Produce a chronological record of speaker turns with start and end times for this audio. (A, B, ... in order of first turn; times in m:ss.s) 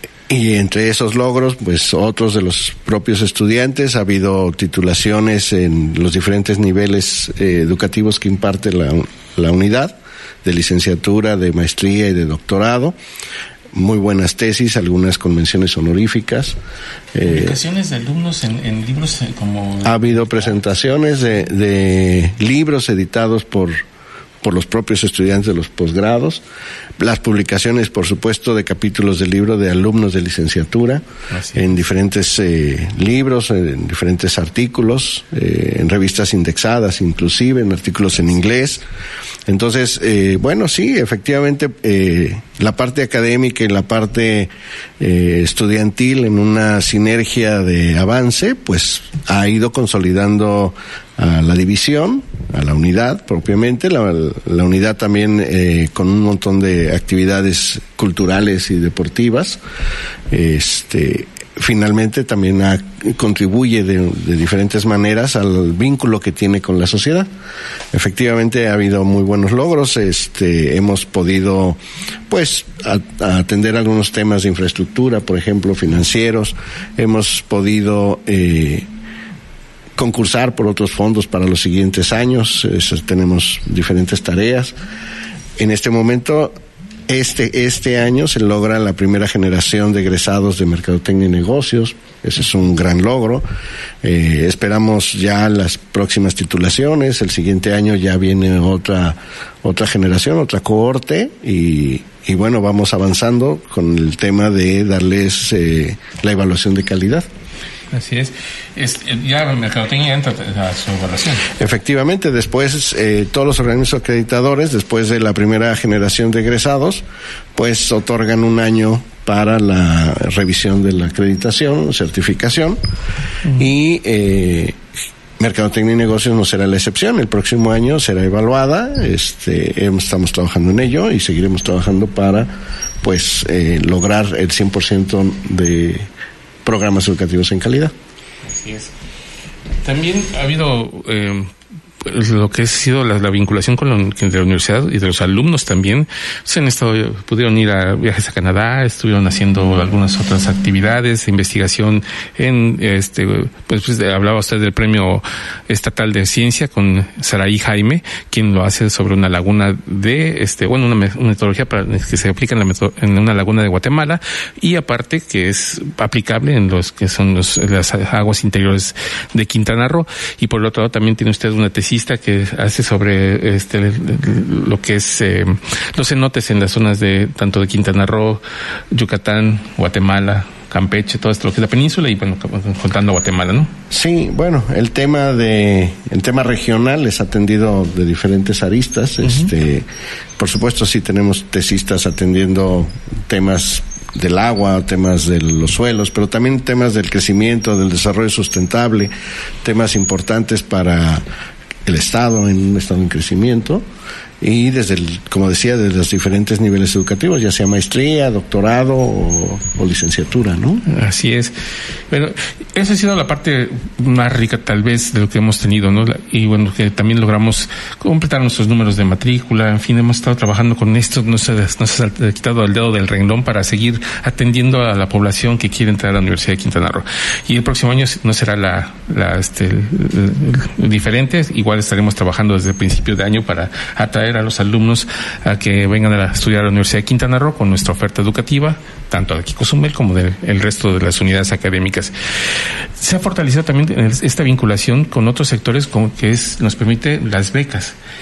0:00.3-0:13.0 A
0:13.7-0:16.6 A
0:17.1-0:17.6 A
0:17.3-0:20.6 B
0:19.8-0:23.8 A
0:24.4-0:26.4 A
0:27.0-0:31.0 A
0:31.3-0:31.7 B
0:31.5-0:38.8 A
0:39.5-0:59.6 A
1:00.3-1:07.3 A
1:07.9-1:18.9 A
1:20.0-1:24.7 A
1:25.6-1:26.5 A
1:27.1-1:33.4 A
1:34.0-1:47.3 A
1:47.9-1:51.5 B
1:51.6-1:57.0 A
1:57.5-2:02.8 A
2:03.6-2:04.8 A
2:05.4-2:16.1 A
2:16.6-2:17.9 A
2:18.4-2:18.9 B
2:19.8-2:21.5 B
2:22.0-3:03.7 B
3:03.9-3:09.8 A
3:10.4-3:19.1 A
3:19.6-3:21.2 A
3:21.8-3:23.8 A
3:24.4-3:30.8 A
3:30.8-3:31.5 B
3:32.1-4:08.0 B